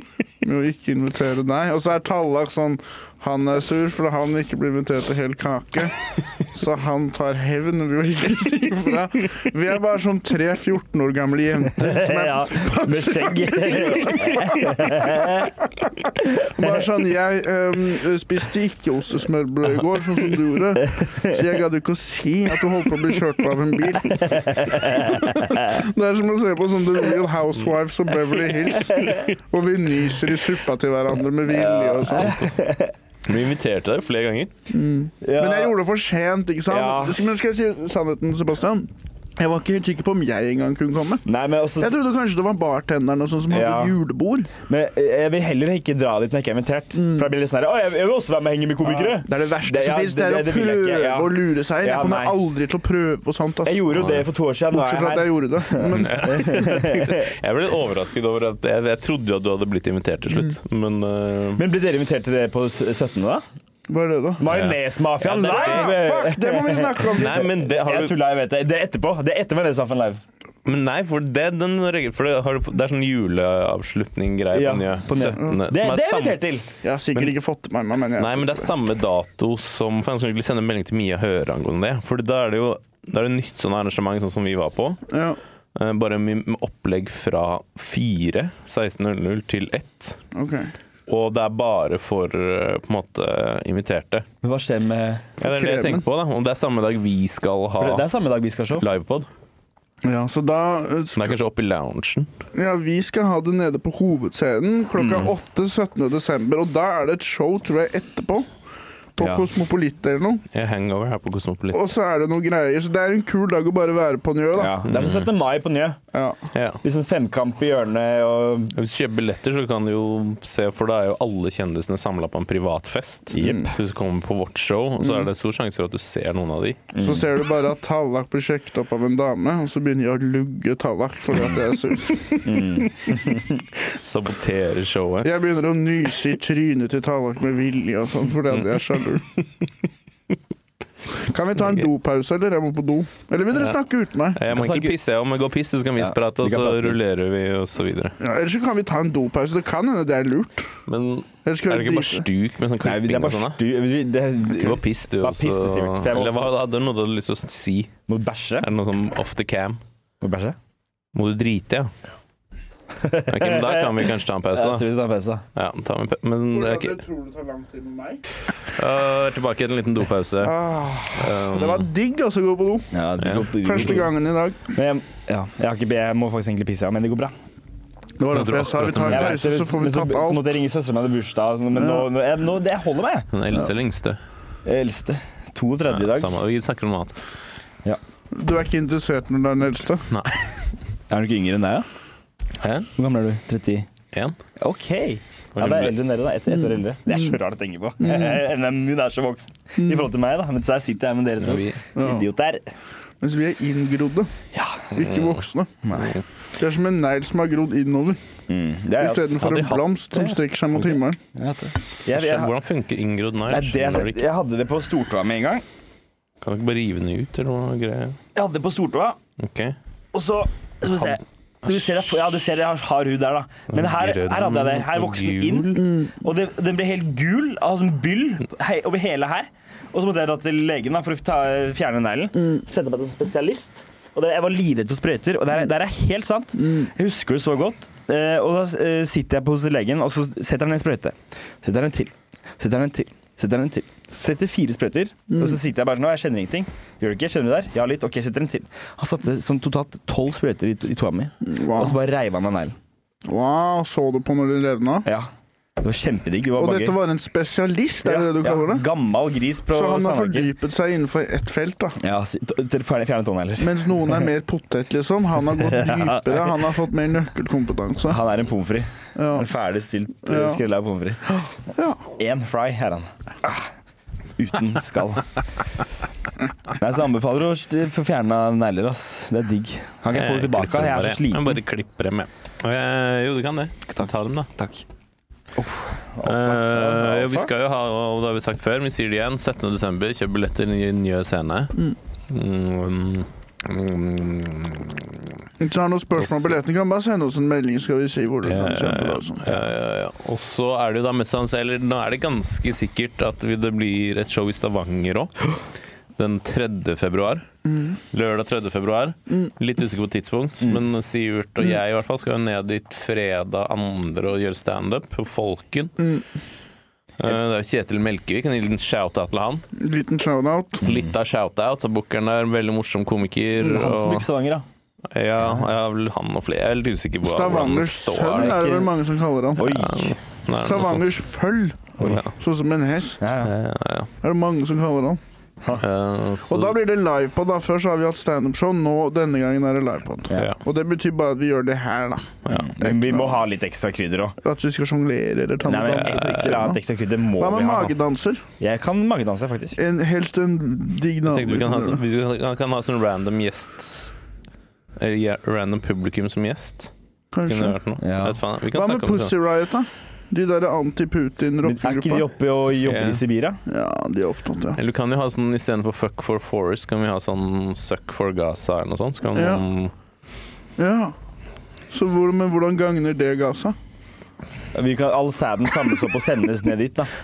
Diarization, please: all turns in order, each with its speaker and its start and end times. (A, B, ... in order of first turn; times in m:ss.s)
0:00.4-0:32.4 A
0:11.8-0:15.5 B
0:16.4-0:16.8 B
0:21.0-0:21.4 B
0:24.1-0:25.8 B
0:28.7-0:29.3 B
0:31.5-0:32.9 B
0:32.1-0:32.6 C
0:33.2-0:34.5 C
0:34.7-0:41.2 A
0:35.2-0:35.8 B
0:36.7-0:37.2 B
0:41.2-0:42.0 B
0:41.8-0:44.5 A
0:43.5-0:44.0 B
0:44.6-0:52.4 B
0:47.0-0:47.3 A
0:48.8-0:53.8 A
0:53.6-0:57.3 B
0:53.9-0:54.2 C
0:54.7-0:56.6 A
0:55.9-1:01.6 C
1:01.6-1:03.4 B
1:03.9-1:04.5 A
1:04.4-1:10.2 B
1:04.5-1:06.0 C
1:05.2-1:07.5 A
1:07.0-1:08.2 C
1:10.6-1:16.4 C
1:14.5-1:16.6 B
1:16.8-1:18.7 A
1:18.2-1:25.0 C
1:25.1-1:25.4 A
1:25.7-1:30.2 C
1:30.3-1:30.7 A
1:31.1-1:34.2 C
1:34.4-1:35.4 B
1:35.4-1:38.1 C
1:35.4-1:36.0 A
1:37.8-1:38.8 B
1:38.7-1:39.3 C
1:40.0-1:41.3 A
1:41.1-1:42.3 C
1:42.5-1:48.5 A
1:49.2-1:50.4 A
1:49.2-1:49.5 B
1:50.5-1:51.9 C
1:51.7-1:54.8 A
1:54.5-1:56.0 B
1:54.8-1:55.3 C
1:56.1-1:56.4 A
1:56.5-1:56.8 C
1:56.8-1:58.7 B
1:58.7-2:06.8 C
2:03.3-2:03.7 B
2:03.4-2:03.7 A
2:05.0-2:05.3 A
2:06.9-2:07.3 B
2:07.0-2:12.8 A
2:12.4-2:13.6 B
2:13.8-2:15.3 C
2:15.2-2:19.2 A
2:19.4-2:19.6 C
2:21.2-2:24.4 A
2:24.3-2:28.2 C
2:24.5-2:24.9 B
2:26.0-2:27.0 B
2:28.2-2:30.7 A
2:30.9-2:33.6 C
2:31.4-2:32.2 A
2:32.8-2:36.5 B
2:34.5-2:37.9 C
2:38.1-2:38.7 B
2:38.6-2:39.8 C
2:40.2-2:40.6 B
2:41.1-2:41.9 C
2:42.9-2:45.4 B
2:43.3-2:44.9 C
2:45.5-2:47.0 C
2:46.5-2:48.2 A
2:48.6-2:50.6 C
2:50.4-2:53.0 A
2:51.1-2:51.9 C
2:52.9-2:54.1 B
2:53.2-2:53.9 C
2:53.5-2:54.7 A
2:54.7-2:57.3 B
2:58.2-3:00.6 A
2:58.3-2:59.4 C
2:59.0-3:03.3 B
3:01.8-3:02.0 A
3:03.3-3:04.2 C
3:04.6-3:06.3 B
3:05.9-3:07.2 C
3:08.3-3:10.1 A
3:10.1-3:10.5 C
3:11.1-3:11.8 B
3:12.6-3:12.9 C
3:13.0-3:13.9 B
3:14.6-3:22.6 B
3:15.5-3:16.0 C
3:18.0-3:18.4 A
3:21.4-3:21.8 C
3:22.0-3:22.3 A
3:23.2-3:24.3 A
3:24.5-3:25.0 B
3:24.9-3:25.7 A
3:25.0-3:25.4 C
3:25.8-3:26.1 B
3:25.9-3:26.2 C
3:26.6-3:28.2 A
3:28.5-3:29.4 B
3:29.0-3:31.2 A
3:29.4-3:29.9 C
3:30.1-3:32.5 B
3:32.1-3:34.2 C
3:33.5-3:35.6 B
3:36.4-3:38.2 C
3:38.3-3:39.2 B
3:39.4-3:39.8 C
3:40.1-4:12.7 B
3:43.7-3:45.9 C
3:56.6-3:56.9 A
4:05.3-4:05.6 A
4:11.4-4:12.0 A
4:13.2-4:15.1 A
4:15.0-4:17.0 B
4:16.6-4:18.9 A
4:18.0-4:20.5 B
4:19.7-4:22.0 A
4:22.0-4:24.3 B
4:23.6-4:28.2 A
4:25.5-4:26.6 B
4:28.1-4:31.5 B
4:29.2-4:29.5 A
4:30.2-4:30.6 A
4:31.7-4:32.0 A
4:32.1-4:33.7 B
4:34.4-4:35.3 B
4:36.7-4:41.6 B
4:40.1-4:44.5 C
4:43.9-4:44.8 B
4:45.6-4:47.5 B
4:46.2-4:51.8 C
4:52.3-4:55.2 C
4:55.6-4:59.6 A
4:56.2-4:56.5 C
4:58.4-5:05.3 C
5:06.2-5:07.4 C
5:07.7-5:07.9 A
5:08.1-5:15.9 C
5:16.0-5:16.2 A
5:17.2-5:19.6 C
5:19.7-5:20.8 A
5:20.8-5:24.3 C
5:20.8-5:21.1 B
5:23.6-5:24.6 B
5:25.1-5:28.6 C
5:27.2-5:30.0 A
5:28.3-5:28.9 B
5:29.6-5:30.2 B
5:29.7-5:31.0 C
5:30.6-5:33.2 A
5:32.0-5:32.3 C
5:33.2-5:33.5 B
5:33.4-5:34.1 C
5:34.2-5:35.2 A
5:35.8-5:36.8 C
5:36.5-5:43.4 A
5:40.3-5:40.6 C
5:42.5-5:42.7 C
5:42.5-5:44.4 B
5:44.4-5:46.8 A
5:45.6-5:47.9 B
5:46.0-5:46.5 C
5:47.4-5:48.4 A
5:48.6-5:49.8 B
5:49.8-5:52.0 A
5:51.3-5:54.1 C
5:55.0-5:56.9 C
5:57.3-5:57.8 A
5:57.5-5:59.3 C
5:58.0-5:58.4 B
5:58.7-6:02.2 A
6:01.6-6:03.6 B
6:02.8-6:03.2 C
6:03.6-6:04.8 A
6:04.8-6:09.9 C
6:09.3-6:09.6 A
6:10.8-6:11.1 A
6:11.9-6:13.8 A
6:14.7-6:17.1 B